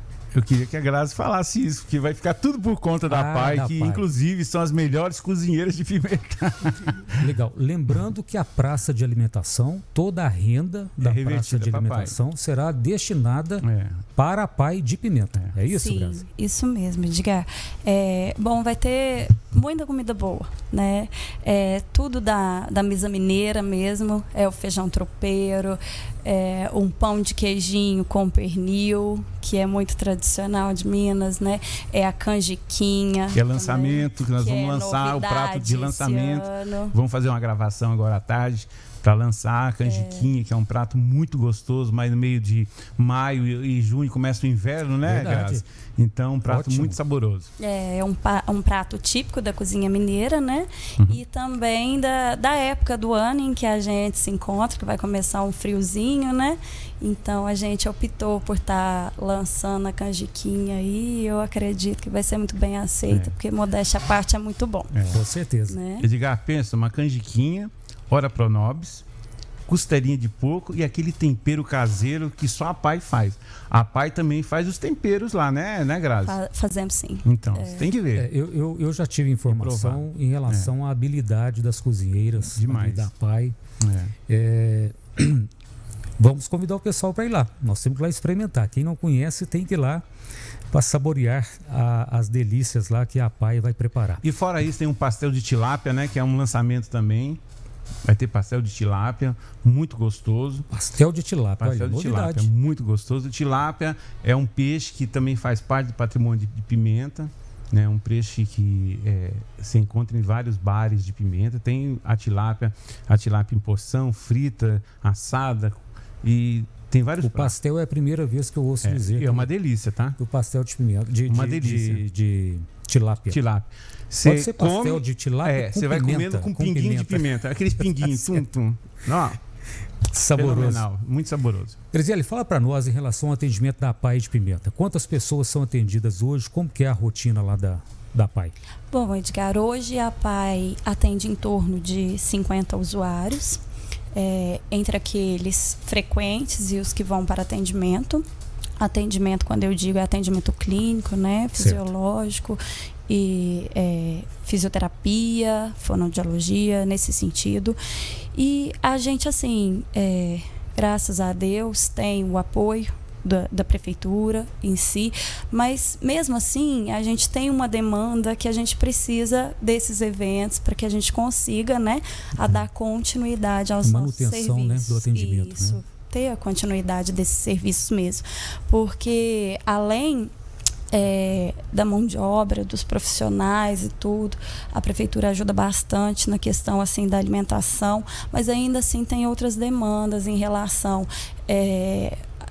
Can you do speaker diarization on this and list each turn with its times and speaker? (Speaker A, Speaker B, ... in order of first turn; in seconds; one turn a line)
Speaker A: 0.3-7.2
Speaker B: 3.1-4.0
Speaker B: 7.2-13.6
Speaker A: 11.0-12.2
Speaker A: 13.6-14.0
Speaker B: 14.2-16.2
Speaker C: 15.7-36.9
Speaker A: 33.3-47.5
Speaker C: 39.8-40.3
Speaker B: 45.0-45.6
Speaker B: 46.5-47.0
Speaker C: 47.6-65.0
Speaker A: 63.1-63.3
Speaker A: 64.9-65.2
Speaker B: 65.1-65.8
Speaker C: 65.7-66.1
Speaker A: 66.0-69.0
Speaker A: 69.7-76.3
Speaker C: 76.2-77.9
Speaker A: 77.2-78.3
Speaker B: 78.2-83.5
Speaker A: 79.5-80.7
Speaker A: 82.4-83.1
Speaker A: 83.8-84.1
Speaker B: 84.3-85.5
Speaker B: 86.2-90.0
Speaker B: 90.7-94.2
Speaker A: 94.2-97.4
Speaker A: 98.0-100.7
Speaker B: 100.7-102.5
Speaker A: 101.6-117.5
Speaker B: 117.2-119.5
Speaker A: 118.8-120.2
Speaker B: 120.2-123.4
Speaker A: 121.3-122.0
Speaker A: 123.3-129.4
Speaker B: 124.2-128.4
Speaker B: 130.1-130.8
Speaker A: 130.3-131.8
Speaker B: 131.9-138.5
Speaker C: 138.9-143.6
Speaker C: 144.2-148.2
Speaker C: 148.8-157.8
Speaker B: 151.6-151.9
Speaker C: 158.3-180.3
Speaker B: 173.8-175.8
Speaker C: 180.9-192.2